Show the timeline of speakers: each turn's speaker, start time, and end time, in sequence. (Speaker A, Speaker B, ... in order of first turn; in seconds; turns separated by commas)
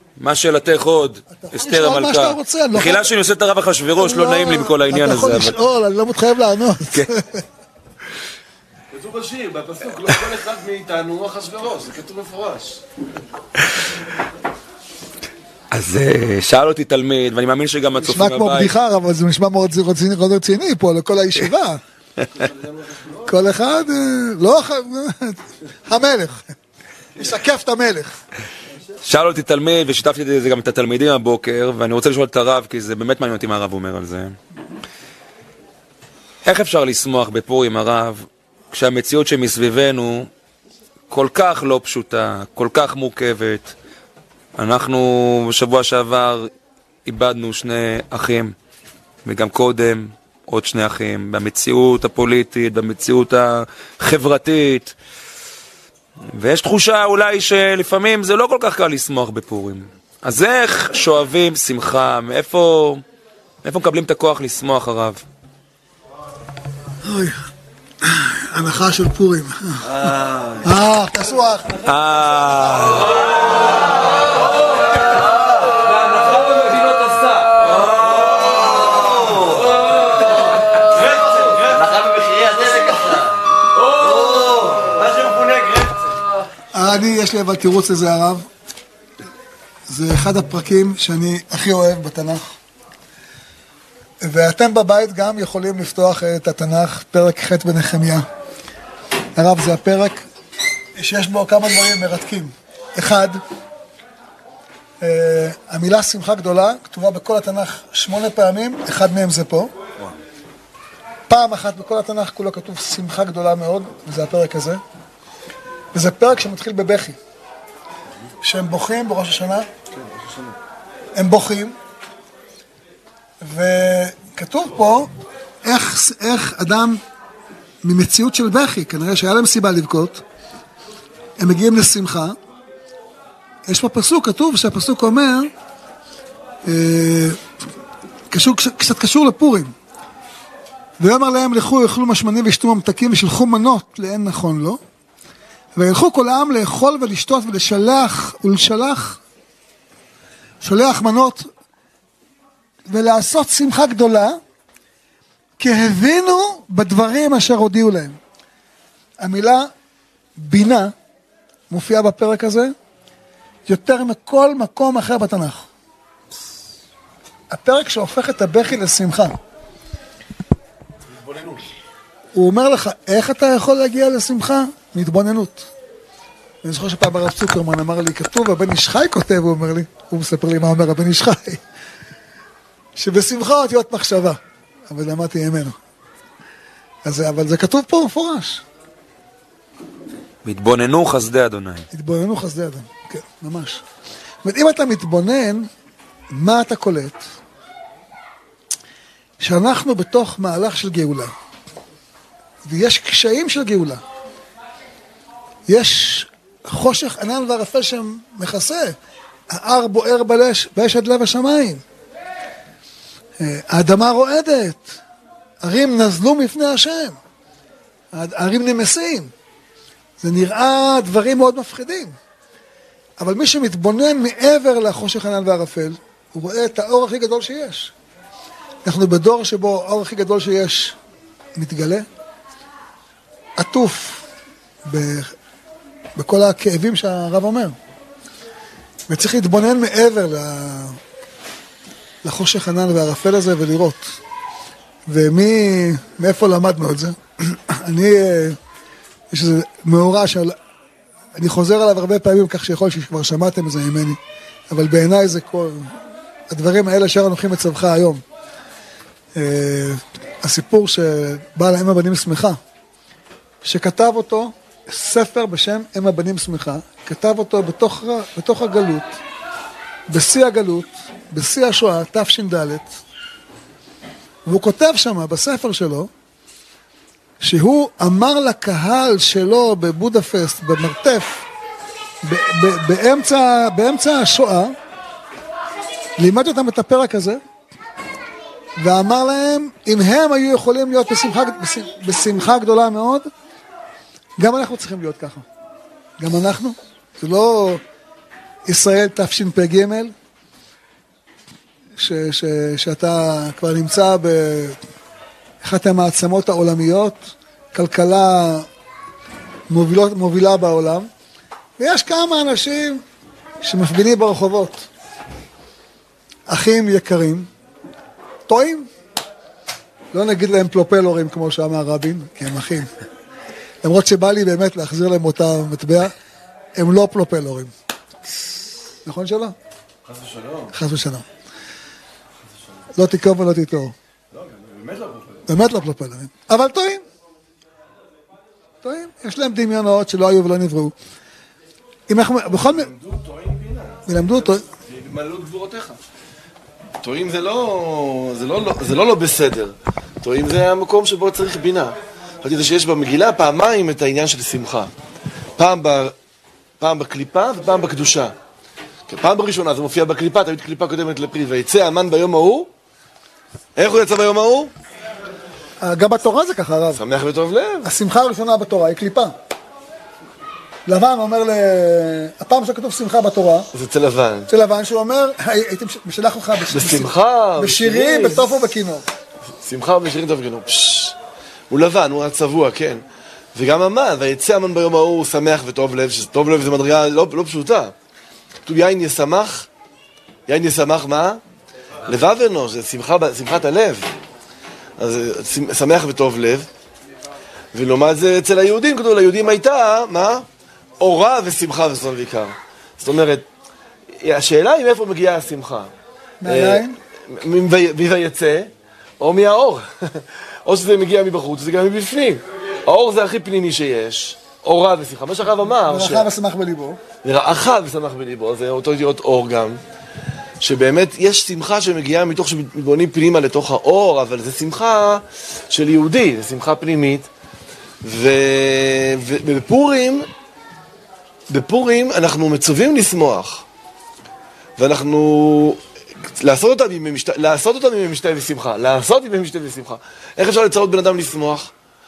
Speaker A: 0.2-5.6, Speaker B: 1.3-3.1, Speaker B: 4.0-7.4, Speaker C: 8.9-12.8, Speaker A: 15.7-18.7, Speaker B: 18.0-21.8, Speaker C: 22.4-23.2, Speaker B: 23.2-26.5, Speaker B: 27.1-28.1, Speaker A: 29.0-34.4, Speaker A: 36.4-40.3, Speaker A: 41.1-43.7, Speaker A: 44.5-46.5, Speaker A: 47.0-48.5, Speaker A: 49.2-54.9, Speaker A: 56.3-63.0, Speaker A: 63.6-65.2, Speaker B: 67.0-67.4, Speaker B: 68.0-70.0, Speaker C: 69.8-70.7, Speaker B: 70.6-71.7, Speaker A: 71.8-73.1, Speaker C: 75.0-86.2, Speaker B: 86.7-88.5, Speaker B: 89.9-92.4, Speaker B: 94.2-98.2, Speaker B: 99.3-100.2, Speaker B: 100.9-103.4, Speaker B: 105.0-109.7, Speaker B: 111.3-114.8, Speaker B: 115.9-117.2, Speaker B: 118.4-119.7, Speaker C: 119.9-120.5, Speaker B: 121.1-121.8, Speaker B: 123.4-125.1, Speaker B: 125.6-127.0, Speaker B: 127.8-130.2, Speaker B: 131.4-132.4, Speaker B: 133.7-135.5, Speaker B: 136.6-137.4, Speaker B: 138.3-139.7, Speaker B: 141.0-144.8, Speaker B: 145.7-149.2, Speaker B: 150.6-151.5, Speaker B: 152.9-154.4, Speaker B: 155.6-158.2, Speaker B: 159.2-159.7, Speaker B: 160.3-160.9, Speaker B: 161.7-162.7, Speaker B: 163.7-165.7, Speaker B: 167.5-169.4, Speaker C: 171.1-171.6, Speaker B: 172.3-175.7, Speaker B: 176.6-181.6, Speaker B: 182.9-185.7, Speaker B: 187.0-188.6, Speaker A: 190.4-191.9, Speaker B: 191.9-193.8, Speaker B: 194.4-195.7, Speaker B: 196.3-197.2, Speaker B: 199.4-201.3, Speaker B: 202.6-204.0, Speaker B: 205.7-208.9, Speaker B: 209.5-211.8, Speaker B: 213.4-215.0, Speaker B: 215.6-217.2, Speaker B: 218.1-219.3, Speaker B: 220.2-222.1, Speaker B: 223.2-227.9, Speaker B: 228.8-230.9, Speaker B: 231.5-232.1, Speaker B: 233.6-234.2, Speaker B: 234.8-235.3, Speaker B: 236.1-237.8, Speaker B: 239.1-241.0, Speaker B: 242.2-244.2, Speaker B: 245.1-248.6, Speaker B: 249.3-250.6, Speaker B: 251.3-254.2, Speaker B: 254.7-255.9, Speaker B: 256.5-258.2, Speaker B: 259.3-262.6, Speaker B: 263.6-269.2, Speaker B: 270.1-273.0, Speaker B: 274.4-276.1, Speaker B: 277.4-281.4, Speaker B: 282.2-284.7, Speaker B: 286.2-287.4, Speaker B: 288.8-293.2, Speaker B: 294.4-295.4, Speaker B: 296.2-297.8, Speaker B: 298.6-300.1, Speaker B: 301.9-304.8, Speaker B: 305.6-308.7, Speaker B: 309.7-311.1, Speaker B: 311.8-313.0, Speaker B: 313.6-314.9, Speaker B: 316.5-317.5, Speaker B: 318.5-318.9, Speaker B: 320.1-322.9, Speaker B: 323.8-326.1, Speaker B: 326.8-327.7, Speaker B: 329.0-329.5, Speaker C: 330.0-330.7, Speaker B: 330.7-331.2, Speaker B: 332.9-333.9, Speaker C: 334.3-335.4, Speaker B: 335.5-337.0, Speaker B: 338.8-340.9, Speaker B: 342.1-342.9, Speaker C: 342.5-344.0, Speaker B: 344.1-344.6, Speaker C: 344.9-346.0, Speaker C: 347.0-354.9, Speaker C: 355.6-356.1, Speaker C: 356.8-358.3, Speaker C: 359.1-362.7, Speaker C: 363.8-364.7, Speaker B: 365.8-367.0, Speaker C: 366.9-367.9, Speaker B: 367.8-369.3, Speaker B: 370.9-373.7, Speaker C: 373.7-374.5, Speaker B: 374.5-379.1, Speaker C: 376.7-378.5, Speaker C: 379.6-381.1, Speaker C: 381.7-383.0, Speaker C: 383.5-387.9, Speaker C: 388.6-389.7, Speaker C: 390.5-391.4, Speaker C: 392.1-394.1, Speaker C: 395.0-396.7, Speaker C: 397.7-400.4, Speaker C: 401.0-403.4, Speaker C: 404.2-405.9, Speaker B: 406.4-407.0, Speaker C: 406.4-416.3, Speaker B: 415.9-417.0, Speaker C: 417.2-419.8, Speaker C: 420.6-427.3, Speaker C: 428.0-430.3, Speaker C: 431.5-433.6, Speaker C: 434.8-435.8, Speaker C: 436.4-441.7